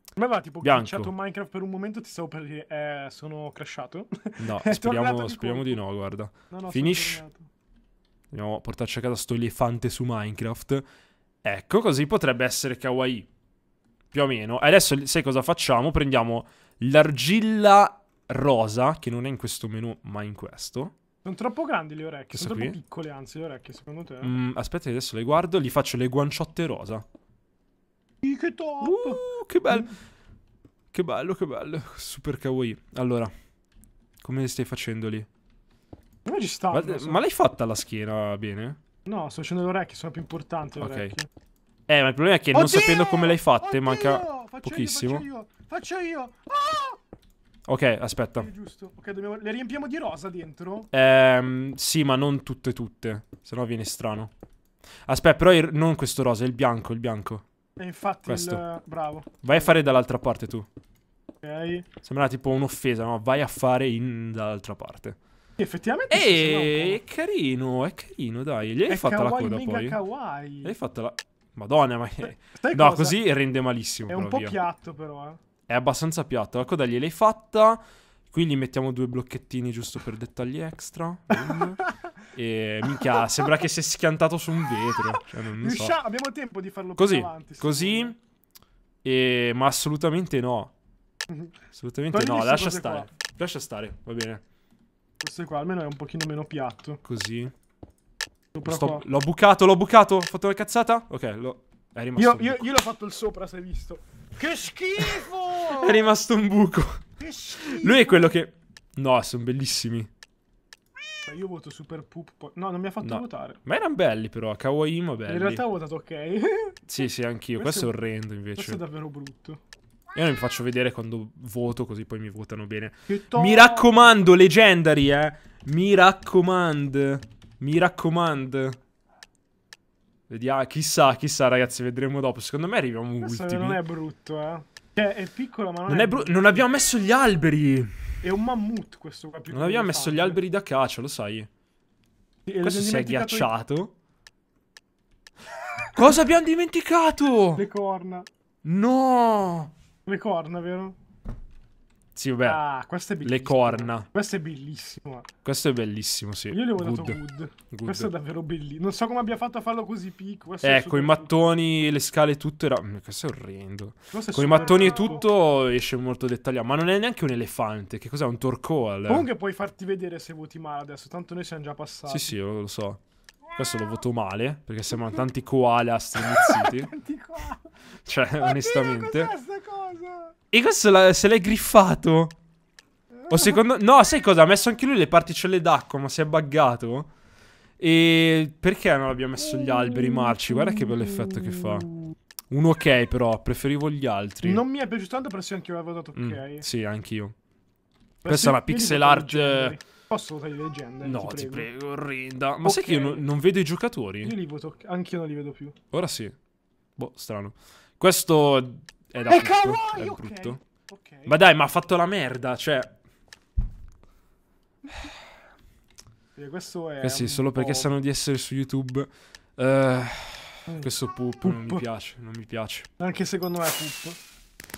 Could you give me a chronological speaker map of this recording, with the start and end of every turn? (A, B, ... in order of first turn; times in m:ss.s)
0:00.2-0:05.8 A
0:00.6-0:01.1 B
0:04.4-0:07.2 B
0:06.5-0:07.5 A
0:08.3-0:10.8 B
0:11.4-0:13.3 B
0:14.1-0:20.9 B
0:21.2-0:24.3 A
0:22.3-0:22.8 B
0:24.2-0:27.0 B
0:28.2-0:29.9 A
0:28.8-0:29.9 B
0:30.9-0:33.3 B
0:34.2-0:35.3 B
0:36.2-0:37.2 A
0:36.7-0:38.8 B
0:39.1-0:41.3 A
0:40.8-0:41.1 B
0:41.9-0:45.2 B
0:42.5-0:47.0 A
0:47.7-0:48.5 B
0:48.4-0:50.9 A
0:50.9-0:54.3 B
0:55.1-0:57.4 B
0:57.8-0:59.7 A
0:58.3-0:58.6 B
0:59.4-1:00.7 B
1:01.4-1:01.9 A
1:02.0-1:05.2 B
1:05.6-1:07.0 A
1:06.1-1:10.0 B
1:08.9-1:10.7 A
1:10.6-1:14.6 B
1:12.4-1:13.2 A
1:14.1-1:15.4 A
1:15.7-1:17.8 B
1:18.3-1:25.9 B
1:21.3-1:22.1 A
1:23.0-1:23.4 A
1:25.6-1:28.2 A
1:27.0-1:28.2 B
1:29.0-1:30.7 B
1:31.3-1:31.5 A
1:31.8-1:34.4 B
1:32.1-1:33.1 A
1:35.2-1:37.0 A
1:37.0-1:37.5 B
1:38.5-1:39.0 A
1:38.6-1:42.7 B
1:42.2-1:46.1 A
1:45.0-1:47.0 B
1:47.2-1:48.4 A
1:47.6-1:50.1 B
1:51.2-1:53.6 A
1:53.0-1:55.6 B
1:55.3-1:56.8 A
1:56.9-1:58.8 B
1:57.6-1:57.9 A
1:58.6-1:59.6 A
2:00.2-2:08.8 B
2:03.1-2:04.1 A
2:10.3-2:13.8 B
2:13.2-2:16.7 A
2:15.9-2:17.9 B
2:18.2-2:20.4 A
2:19.5-2:21.5 B
2:22.5-2:23.5 A
2:22.6-2:23.9 B
2:25.9-2:27.6 B
2:27.6-2:28.3 A
2:28.6-2:29.7 B
2:30.1-2:31.0 A
2:32.2-2:32.6 B
2:32.4-2:35.3 A
2:33.2-2:34.1 B
2:35.4-2:37.2 B
2:36.5-2:41.5 A
2:37.7-2:38.1 B
2:40.6-2:49.3 B
2:44.1-2:45.2 A
2:49.1-2:52.3 A
2:52.1-2:53.0 B
2:53.6-2:56.9 B
2:56.2-2:57.7 A
2:58.1-2:59.3 B
2:58.4-3:00.3 A
3:00.5-3:02.4 B
3:03.2-3:03.6 A
3:03.3-3:07.1 B
3:07.8-3:11.9 B
3:09.4-3:12.1 A
3:12.5-3:14.6 B
3:14.4-3:16.6 A
3:16.2-3:17.3 B
3:18.2-3:21.7 A
3:18.3-3:19.8 B
3:21.0-3:24.4 B
3:22.6-3:23.3 A
3:24.2-3:25.8 A
3:25.9-3:26.3 B
3:27.0-3:30.6 B
3:29.3-3:31.4 A
3:31.3-3:32.9 B
3:36.4-3:37.9 A
3:37.0-3:42.9 B
3:41.4-3:41.8 A
3:43.0-3:44.2 A